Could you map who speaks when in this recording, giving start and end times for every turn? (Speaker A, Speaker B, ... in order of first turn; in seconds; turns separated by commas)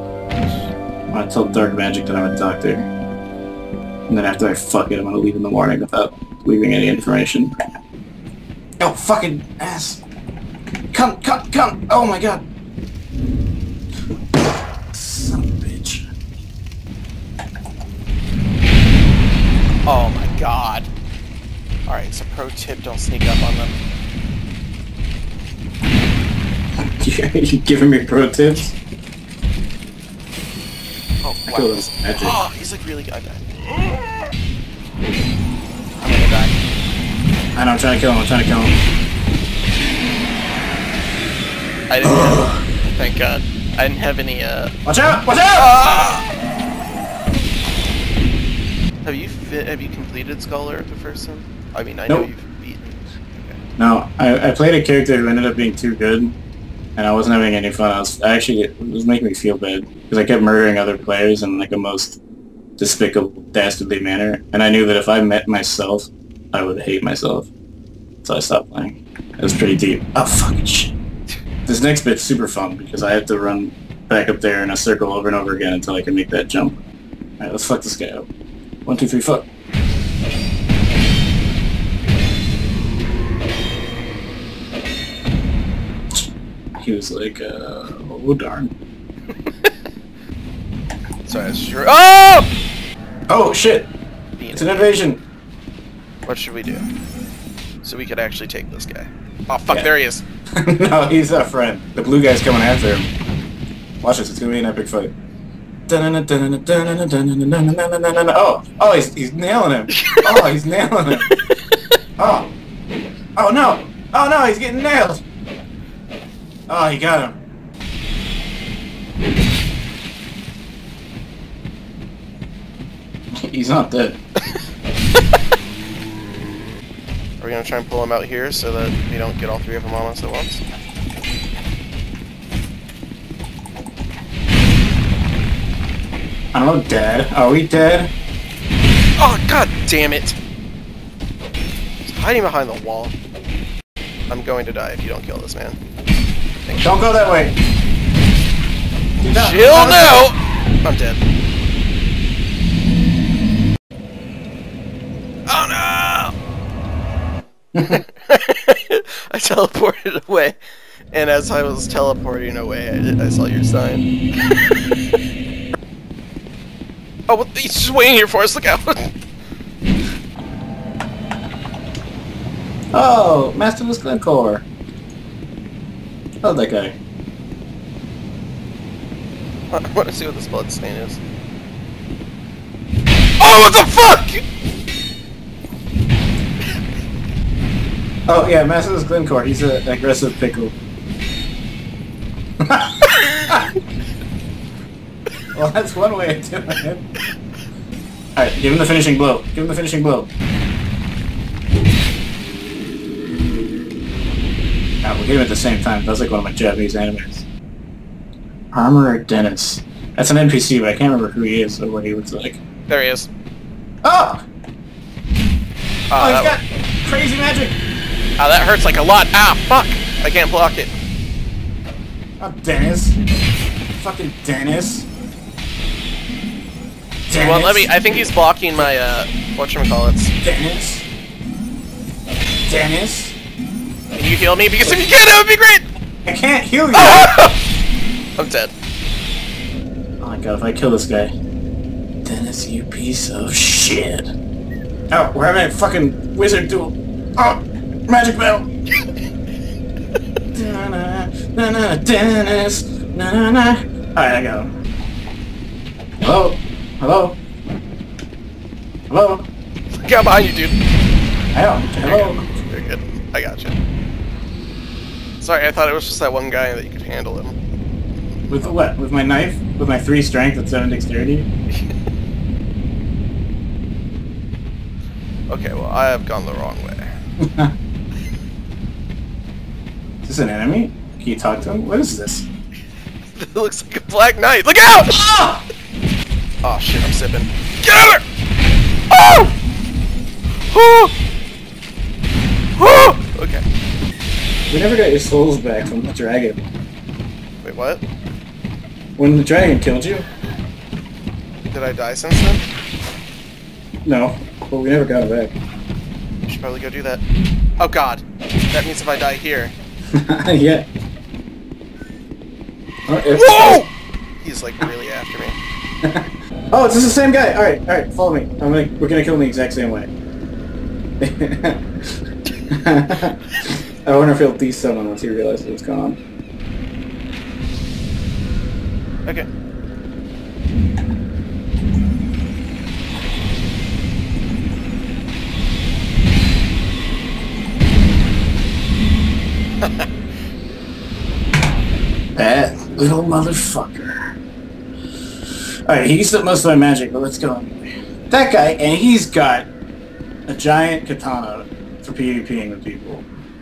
Speaker A: 1.1-2.9, Speaker A: 4.1-7.5, Speaker A: 8.8-10.0, Speaker A: 10.9-12.4, Speaker A: 14.9-16.1, Speaker B: 19.9-20.9, Speaker B: 21.9-23.8, Speaker A: 26.8-28.8, Speaker B: 31.2-33.7, Speaker A: 31.4-32.4, Speaker B: 36.0-36.6, Speaker A: 37.5-38.8, Speaker B: 41.9-44.7, Speaker A: 42.0-42.6, Speaker A: 44.8-45.7, Speaker B: 45.5-46.2, Speaker B: 49.0-53.6, Speaker A: 53.8-56.3, Speaker A: 57.0-62.2, Speaker A: 62.8-67.5, Speaker A: 68.2-70.9, Speaker A: 71.7-76.8, Speaker A: 77.4-78.3, Speaker A: 78.8-79.5, Speaker A: 86.8-88.7, Speaker B: 91.2-92.5, Speaker A: 93.3-93.9, Speaker B: 94.4-95.0, Speaker A: 94.5-95.2, Speaker B: 96.2-96.9, Speaker B: 97.8-100.2, Speaker A: 100.6-103.1, Speaker A: 104.0-105.1, Speaker A: 105.9-111.3, Speaker B: 110.0-110.5, Speaker B: 111.2-111.8, Speaker A: 112.2-112.5, Speaker A: 113.3-115.2, Speaker A: 116.7-117.4, Speaker A: 123.4-124.2, Speaker B: 127.4-130.6, Speaker A: 136.5-138.1, Speaker B: 139.2-140.4, Speaker B: 142.0-143.1, Speaker B: 144.3-145.8, Speaker B: 146.7-147.2, Speaker A: 146.8-147.5, Speaker A: 149.2-150.3, Speaker B: 149.2-151.2, Speaker B: 155.5-156.3, Speaker A: 157.7-158.0, Speaker B: 157.9-160.6, Speaker B: 161.1-165.2, Speaker B: 167.3-169.1, Speaker A: 172.9-174.7, Speaker A: 176.4-177.0, Speaker B: 179.7-181.2, Speaker B: 183.4-184.4, Speaker A: 188.3-190.7, Speaker A: 192.7-193.7, Speaker A: 195.5-197.1, Speaker A: 198.3-200.3, Speaker A: 205.0-207.4, Speaker A: 208.7-212.6, Speaker B: 212.9-213.3, Speaker A: 214.0-214.4, Speaker B: 216.1-216.6, Speaker A: 216.2-217.8, Speaker B: 218.4-220.9, Speaker A: 222.4-223.2, Speaker A: 223.9-225.1, Speaker A: 227.3-227.9, Speaker B: 227.3-230.3, Speaker A: 230.4-231.1, Speaker A: 232.7-233.3, Speaker B: 234.2-235.8, Speaker A: 236.2-237.3, Speaker B: 236.9-237.6, Speaker B: 238.4-238.7, Speaker A: 240.2-241.3, Speaker A: 242.2-244.3, Speaker A: 245.1-248.7, Speaker A: 250.5-254.7, Speaker A: 256.2-257.4, Speaker A: 259.1-259.5, Speaker B: 259.9-260.8, Speaker A: 261.5-262.5, Speaker B: 262.0-263.8, Speaker B: 265.4-267.6, Speaker A: 268.5-271.5, Speaker B: 275.5-277.1, Speaker A: 277.4-277.7, Speaker A: 280.2-282.5, Speaker B: 283.3-285.2, Speaker A: 285.1-285.6, Speaker B: 286.6-288.2, Speaker B: 289.1-289.5, Speaker B: 290.7-291.1, Speaker B: 292.8-293.6, Speaker A: 294.7-296.6, Speaker B: 297.6-298.0, Speaker A: 299.2-300.3, Speaker B: 301.7-302.6, Speaker A: 304.0-305.5, Speaker B: 306.5-307.2, Speaker B: 307.8-309.7, Speaker A: 310.1-310.9, Speaker A: 313.1-313.8, Speaker B: 313.3-313.9, Speaker B: 314.4-315.6, Speaker A: 316.0-320.1, Speaker A: 321.2-321.8, Speaker A: 322.7-326.2, Speaker B: 339.8-340.1, Speaker A: 342.4-344.2, Speaker A: 345.9-349.7, Speaker A: 350.5-353.3